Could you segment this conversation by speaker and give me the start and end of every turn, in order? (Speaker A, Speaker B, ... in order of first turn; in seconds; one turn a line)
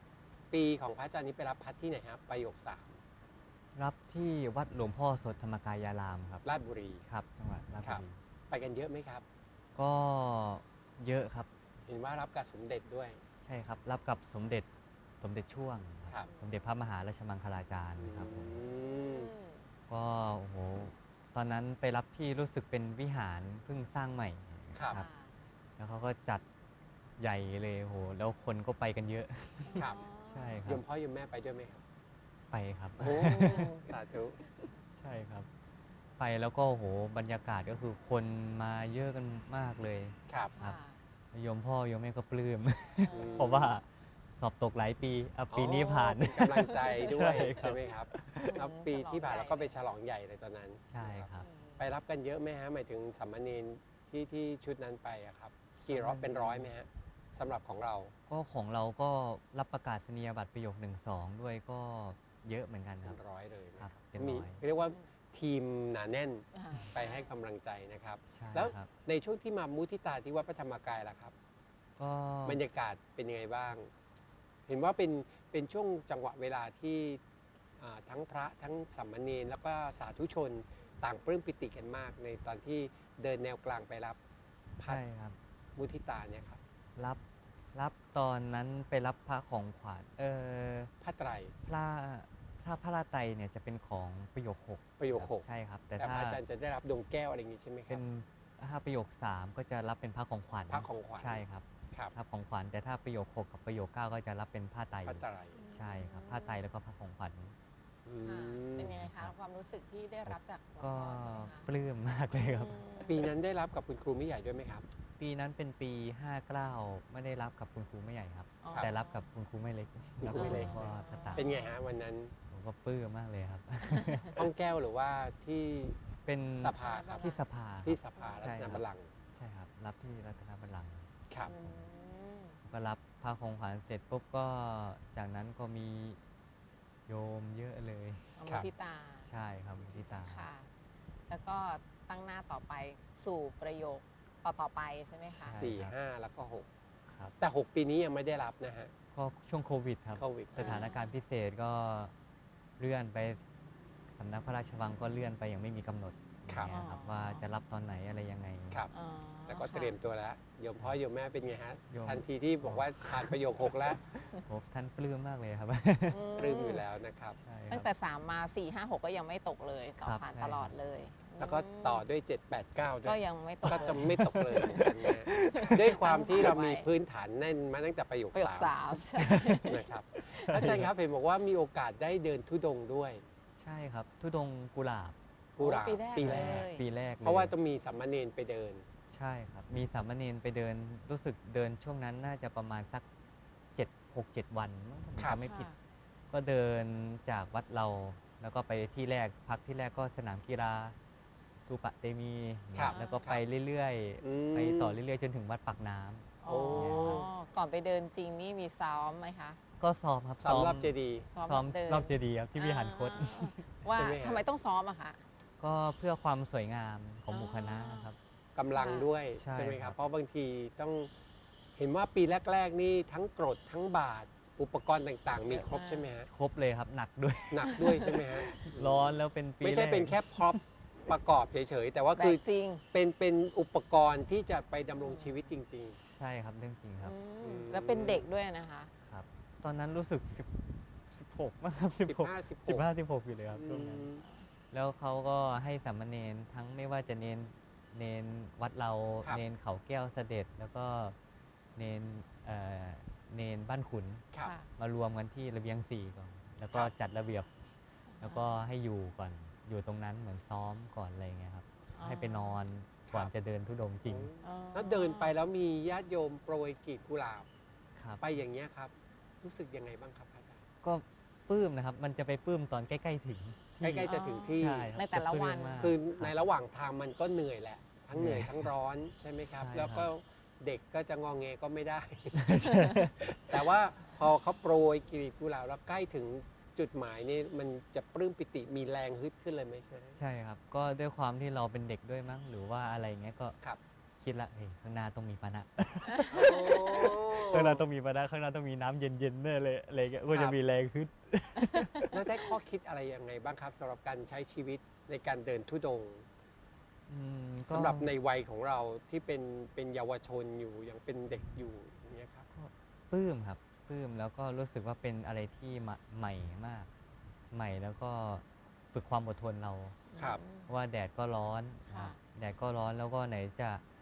Speaker A: 0.5-3.0
Speaker B: 3.8-6.5
Speaker A: 6.4-7.0
Speaker B: 7.1-8.2
Speaker A: 7.8-9.2
Speaker B: 9.8-11.5
Speaker A: 11.9-13.2
Speaker B: 13.4-14.7
Speaker B: 15.2-18.6
Speaker A: 18.0-19.3
Speaker C: 18.8-19.7
Speaker B: 19.9-25.1
Speaker A: 24.7-25.0
Speaker C: 24.9-25.4
Speaker B: 25.8-26.4
Speaker B: 27.2-30.8
Speaker C: 29.7-30.6
Speaker A: 30.7-31.8
Speaker B: 32.5-33.8
Speaker A: 33.0-34.4
Speaker C: 33.4-33.8
Speaker B: 35.0-35.5
Speaker B: 36.2-40.8
Speaker A: 40.3-40.5
Speaker C: 40.6-41.0
Speaker B: 41.3-43.9
Speaker C: 43.0-43.6
Speaker A: 43.1-43.8
Speaker B: 44.4-48.6
Speaker A: 45.5-58.1
Speaker C: 48.5-49.7
Speaker B: 50.9-51.5
Speaker C: 51.4-51.9
Speaker B: 55.8-56.7
Speaker B: 58.3-63.2
Speaker A: 63.0-71.3
Speaker B: 63.8-64.6
Speaker C: 66.5-67.3
Speaker B: 68.3-68.9
Speaker B: 72.0-72.6
Speaker A: 72.5-73.9
Speaker A: 74.7-77.2
Speaker A: 77.8-84.2
Speaker B: 84.8-85.4
Speaker A: 85.8-86.6
Speaker B: 87.0-87.2
Speaker B: 87.7-90.9
Speaker A: 91.0-91.5
Speaker B: 91.7-96.4
Speaker A: 95.0-95.5
Speaker A: 96.0-98.0
Speaker B: 97.9-107.5
Speaker A: 100.7-102.1
Speaker A: 105.1-105.6
Speaker C: 105.5-106.6
Speaker A: 108.1-109.0
Speaker C: 108.2-111.7
Speaker B: 108.8-109.3
Speaker B: 110.3-112.8
Speaker C: 112.3-113.3
Speaker A: 113.1-114.9
Speaker B: 115.2-121.5
Speaker C: 118.6-119.2
Speaker A: 120.2-122.3
Speaker C: 120.3-121.7
Speaker B: 122.5-124.4
Speaker A: 124.4-126.0
Speaker B: 126.2-128.8
Speaker A: 126.5-127.3
Speaker C: 126.8-127.5
Speaker A: 127.8-129.1
Speaker C: 128.2-128.4
Speaker B: 129.3-131.8
Speaker C: 131.4-132.6
Speaker B: 132.6-136.2
Speaker B: 137.1-138.4
Speaker C: 138.4-139.3
Speaker B: 139.3-140.5
Speaker C: 139.9-140.7
Speaker C: 141.3-145.6
Speaker B: 145.3-145.9
Speaker A: 145.6-146.7
Speaker B: 147.1-147.3
Speaker A: 147.4-148.9
Speaker B: 149.1-152.1
Speaker A: 150.2-150.9
Speaker C: 150.6-151.2
Speaker B: 152.8-153.4
Speaker B: 154.1-158.9
Speaker C: 156.7-157.4
Speaker C: 158.9-160.0
Speaker A: 159.5-164.0
Speaker B: 161.9-166.3
Speaker C: 166.1-166.8
Speaker A: 166.4-167.4
Speaker B: 167.4-167.9
Speaker C: 167.7-172.0
Speaker B: 170.0-170.7
Speaker A: 171.4-178.8
Speaker C: 173.0-176.9
Speaker B: 173.7-175.8
Speaker C: 178.3-180.7
Speaker B: 179.2-179.7
Speaker A: 179.6-183.2
Speaker B: 180.3-180.8
Speaker B: 183.6-185.2
Speaker A: 185.6-186.7
Speaker C: 185.6-186.8
Speaker B: 186.2-187.5
Speaker A: 187.2-188.9
Speaker B: 189.1-193.1
Speaker B: 193.8-195.7
Speaker A: 195.2-195.4
Speaker C: 195.4-195.8
Speaker B: 196.3-201.0
Speaker B: 201.7-207.2
Speaker A: 202.7-203.4
Speaker C: 202.9-203.3
Speaker A: 204.2-205.0
Speaker C: 206.4-209.6
Speaker A: 206.5-207.3
Speaker B: 209.8-210.9
Speaker A: 210.4-211.3
Speaker C: 211.3-215.2
Speaker B: 211.4-213.8
Speaker A: 213.9-214.4
Speaker B: 215.6-218.2
Speaker C: 217.3-218.1
Speaker A: 218.6-221.1
Speaker C: 218.7-219.1
Speaker B: 219.4-220.0
Speaker A: 221.8-226.3
Speaker C: 225.5-226.1
Speaker B: 226.3-230.6
Speaker A: 227.5-236.0
Speaker C: 227.7-228.2
Speaker C: 232.2-232.8
Speaker C: 235.0-235.4
Speaker B: 235.9-237.2
Speaker C: 237.0-238.9
Speaker A: 237.4-238.3
Speaker B: 239.0-244.1
Speaker A: 242.0-242.9
Speaker A: 243.5-244.2
Speaker C: 244.2-244.5
Speaker B: 244.7-251.2
Speaker B: 251.8-257.5
Speaker C: 254.4-254.7
Speaker C: 258.1-258.6
Speaker B: 258.2-264.3
Speaker C: 262.0-262.6
Speaker A: 264.1-267.5
Speaker C: 264.4-265.3
Speaker B: 268.0-268.3
Speaker A: 268.2-270.6
Speaker B: 270.8-276.3
Speaker A: 273.8-274.9
Speaker C: 274.0-275.9
Speaker A: 275.8-282.6
Speaker B: 278.1-278.7
Speaker B: 279.5-280.1
Speaker B: 282.3-283.6
Speaker A: 283.2-290.2
Speaker B: 290.2-293.6
Speaker B: 294.2-302.2
Speaker A: 296.3-297.8
Speaker A: 300.3-300.6
Speaker C: 301.8-302.0
Speaker A: 302.1-306.3
Speaker B: 307.1-308.1
Speaker A: 307.7-312.5
Speaker B: 311.4-311.6
Speaker B: 312.5-316.9
Speaker B: 317.5-320.0
Speaker C: 320.1-320.7
Speaker B: 320.7-323.8
Speaker C: 321.9-322.2